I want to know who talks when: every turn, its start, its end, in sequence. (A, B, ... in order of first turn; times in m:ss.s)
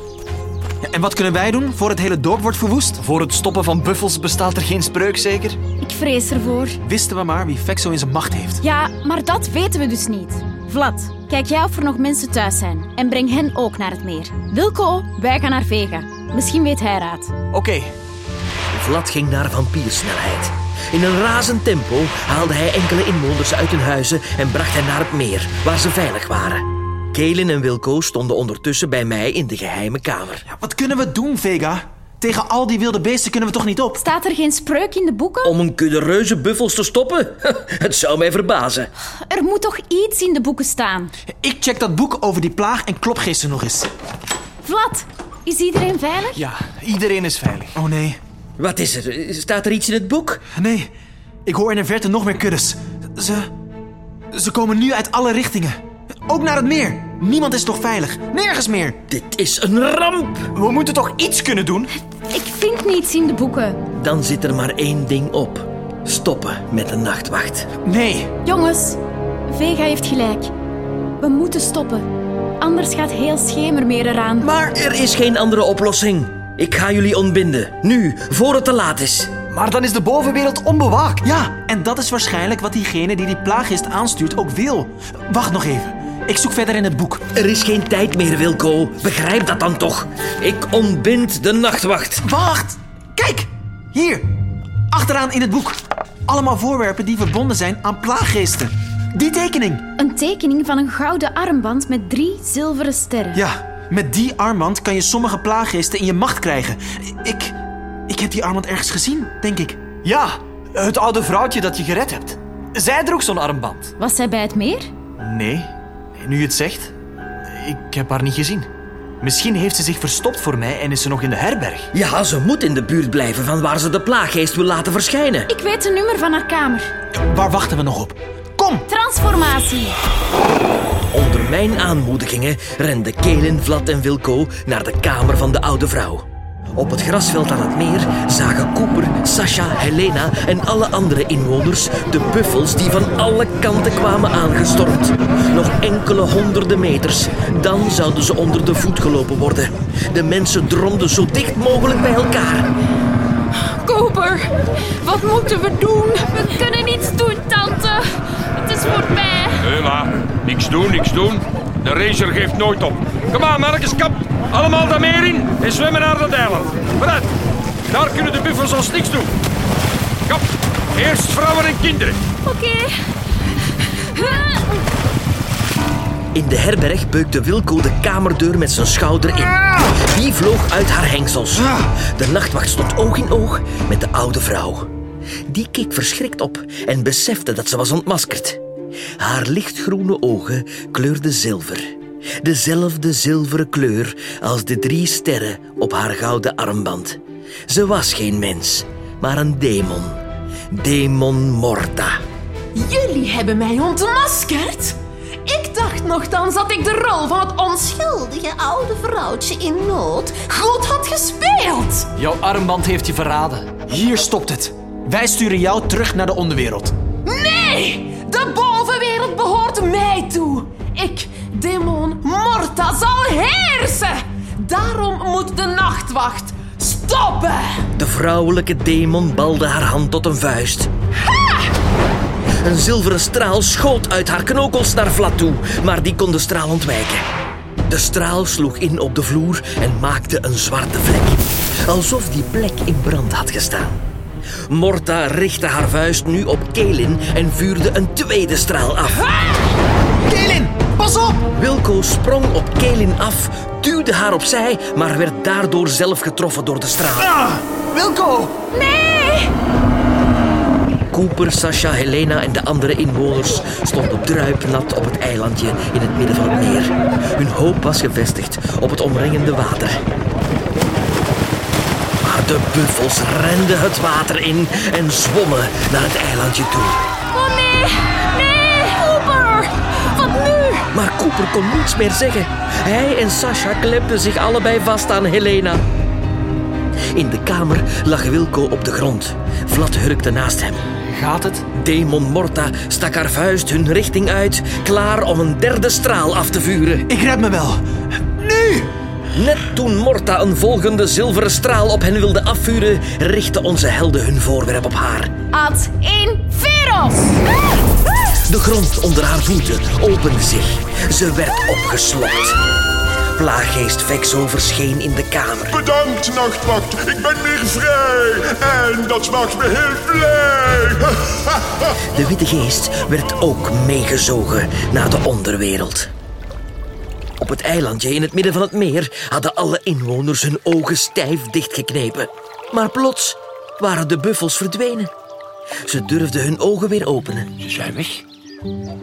0:00.9-0:03.0 A
0:03.0-0:05.6 B
0:05.8-0:06.8 C
0:06.8-0:08.6 A
0:08.6-0:17.3 C
0:17.5-0:17.9 B
0:18.7-0:30.4 D
0:30.5-0:34.0 A
0:34.0-0:35.6 C
0:35.4-0:38.9 D
0:39.3-0:41.2 C
0:41.4-0:43.9 A
0:44.6-0:46.4 C
0:46.4-0:47.8 B
0:47.8-0:48.2 A
0:48.6-0:50.4 D
0:50.6-0:50.9 A
0:51.5-0:53.5 A
0:54.3-0:59.0 A
0:59.1-1:00.5 D
1:00.6-1:01.9 B
1:02.3-1:03.8 C
1:03.9-1:07.7 D
1:07.8-1:08.3 A
1:08.4-1:10.5 C
1:11.2-1:12.1 C
1:12.6-1:14.5 C
1:14.4-1:19.3 D
1:19.5-1:21.3 B
1:21.2-1:27.2 A
1:27.3-1:32.2 D
1:32.2-1:34.3 A
1:34.9-1:39.9 A
1:40.0-1:43.4 C
1:43.3-1:47.6 A
1:48.1-1:49.8 A
1:50.0-1:53.9 B
1:54.0-1:54.9 C
1:55.2-1:56.9 B
1:57.6-1:58.7 B
1:59.2-2:01.9 B
2:01.9-2:05.5 D
2:05.5-2:06.9 C
2:07.1-2:08.8 A
2:08.9-2:10.0 C
2:11.1-2:16.2 D
2:16.8-2:32.7 D
2:33.7-2:34.5 E
2:35.0-2:36.3 E
2:36.4-2:39.7 F
2:39.6-2:47.3 G
2:47.9-2:49.3 G
2:50.3-2:52.2 G
2:52.4-2:52.9 F
2:54.1-2:54.7 F
2:56.3-3:04.9 D
3:05.5-3:08.6 D
3:09.2-3:22.2 D
3:22.8-3:32.1 E
3:32.2-3:33.7 B
3:33.9-3:37.0 A
3:37.2-3:47.9 E
3:48.0-3:50.9 D
3:52.6-3:57.3 D
3:57.9-4:04.0 D
4:04.7-4:09.3 D
4:10.2-4:11.5 A
4:11.6-4:17.3 D
4:17.8-4:18.5 B
4:18.7-4:19.5 C
4:21.1-4:30.0 D
4:32.2-4:37.0 D
4:37.3-4:40.9 F
4:40.9-4:45.8 D
4:47.1-4:50.8 D
4:51.1-4:51.6 B
4:51.7-4:57.1 D
4:57.1-4:58.9 A
4:59.3-5:05.3 D
5:05.5-5:07.4 C
5:08.5-5:12.6 D
5:13.4-5:15.8 D
5:15.7-5:22.0 H
5:22.1-5:26.1 D
5:27.4-5:35.1 D
5:35.8-5:37.5 D
5:37.6-5:38.2 G